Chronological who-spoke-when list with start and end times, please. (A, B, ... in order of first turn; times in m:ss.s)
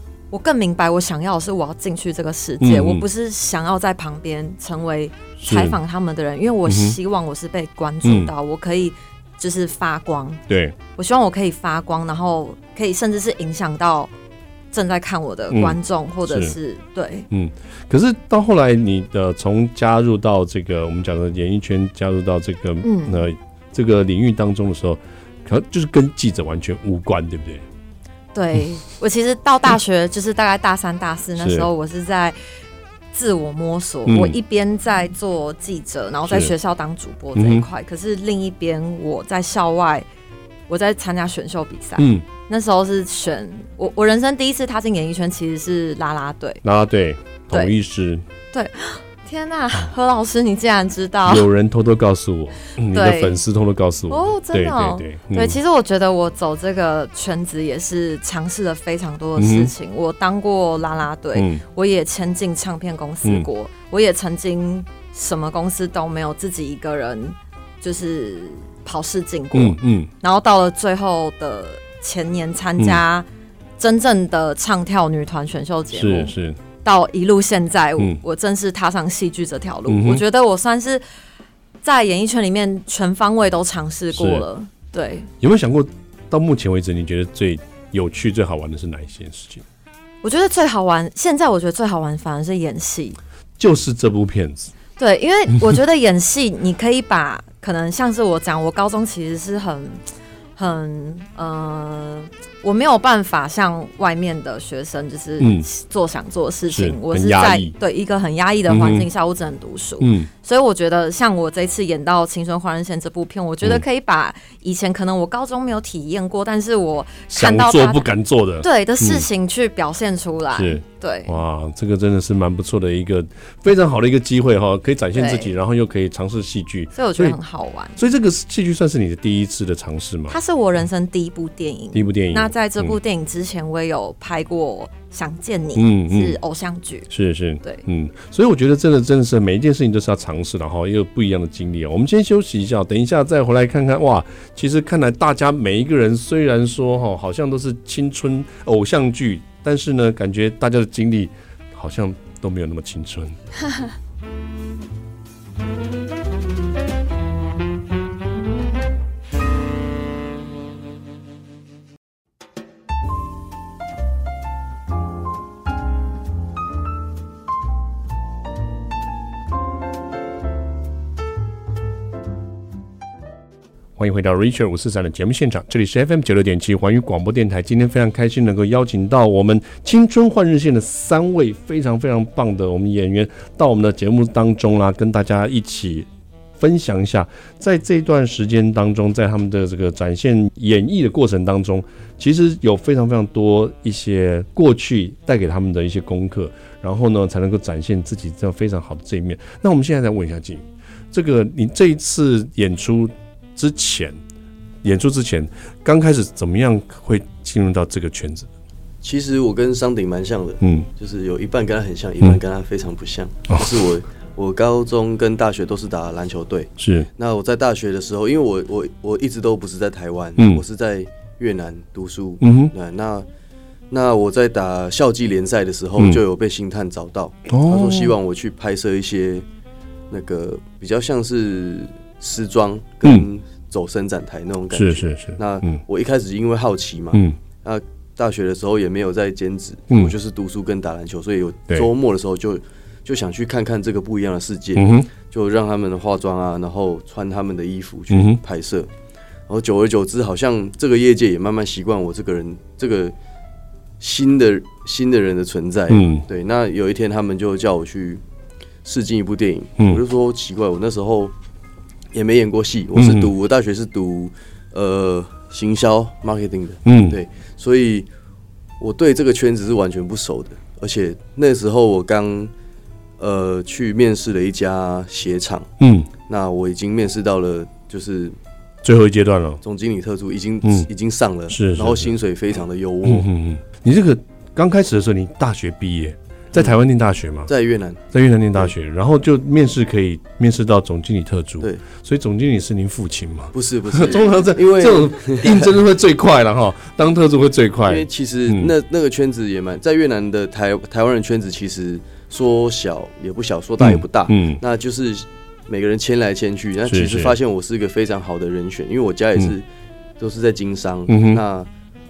0:00.3-0:10.4 A
0:02.6-0:03.0 B
0:05.4-0:05.8 B
0:06.7-0:07.0 B
0:08.0-0:08.3 B
0:10.5-0:10.8 B
0:10.9-0:14.1 A
0:14.7-0:17.3 A
0:15.5-0:16.6 B
0:17.3-0:27.6 B
0:22.8-0:23.3 A
0:28.3-0:32.4 A
0:31.4-0:31.7 B
0:33.1-0:40.0 A
0:34.0-0:34.4 B
0:36.3-0:36.5 B
0:37.3-0:37.7 B
0:40.7-0:46.6 A
0:42.0-0:42.2 B
0:46.6-0:48.2 B
0:48.5-0:51.5 A
0:51.2-0:55.6 B
0:52.9-0:53.4 A
0:54.1-1:13.3 A
0:59.4-0:59.7 B
1:01.3-1:01.6 B
1:09.5-1:10.1 B
1:13.8-1:21.0 A
1:15.9-1:16.6 B
1:19.9-1:20.2 B
1:21.8-1:25.3 A
1:24.1-1:24.4 B
1:25.4-1:29.6 B
1:30.2-1:33.2 A
1:33.6-1:34.7 B
1:35.0-1:40.0 A
1:40.6-1:58.1 A
1:45.4-1:45.7 B
1:46.7-1:47.7 B
1:48.7-1:49.1 B
1:50.0-1:50.3 B
1:57.3-1:59.3 B
1:58.6-2:01.4 A
2:00.5-2:07.4 B
2:05.1-2:05.5 A
2:06.9-2:08.0 A
2:08.0-2:10.4 B
2:10.3-2:17.1 A
2:11.9-2:13.0 B
2:15.7-2:16.4 B
2:17.1-2:33.4 B
2:54.0-3:06.1 B
3:06.6-3:24.2 B
3:24.8-3:28.5 B
3:29.0-3:43.2 C
3:30.6-3:30.9 B
3:36.8-3:37.1 B
3:40.4-3:40.6 B
3:42.4-3:42.7 B
3:43.9-3:49.4 C
3:46.0-3:46.2 B
3:47.5-3:48.2 B
3:50.1-4:08.9 C
3:54.7-3:55.8 B
4:04.8-4:05.1 B
4:08.1-4:08.4 B
4:09.5-4:13.1 C
4:14.0-4:18.2 C
4:15.9-4:16.2 B
4:18.8-4:21.3 C
4:22.1-4:28.1 C
4:22.9-4:23.3 B
4:26.8-4:27.2 B
4:28.8-4:32.5 C
4:33.2-4:35.7 C
4:35.8-4:36.1 B
4:36.2-4:38.4 C
4:38.8-4:39.6 B
4:39.6-4:43.3 C
4:40.6-4:40.9 B
4:41.5-4:42.1 B
4:43.0-4:47.5 B
4:47.5-4:48.0 C
4:48.1-4:58.7 B
4:53.5-4:55.7 C
4:57.8-5:09.6 C
5:03.8-5:04.6 B
5:06.8-5:07.3 B
5:10.2-5:11.7 C
5:11.1-5:11.4 B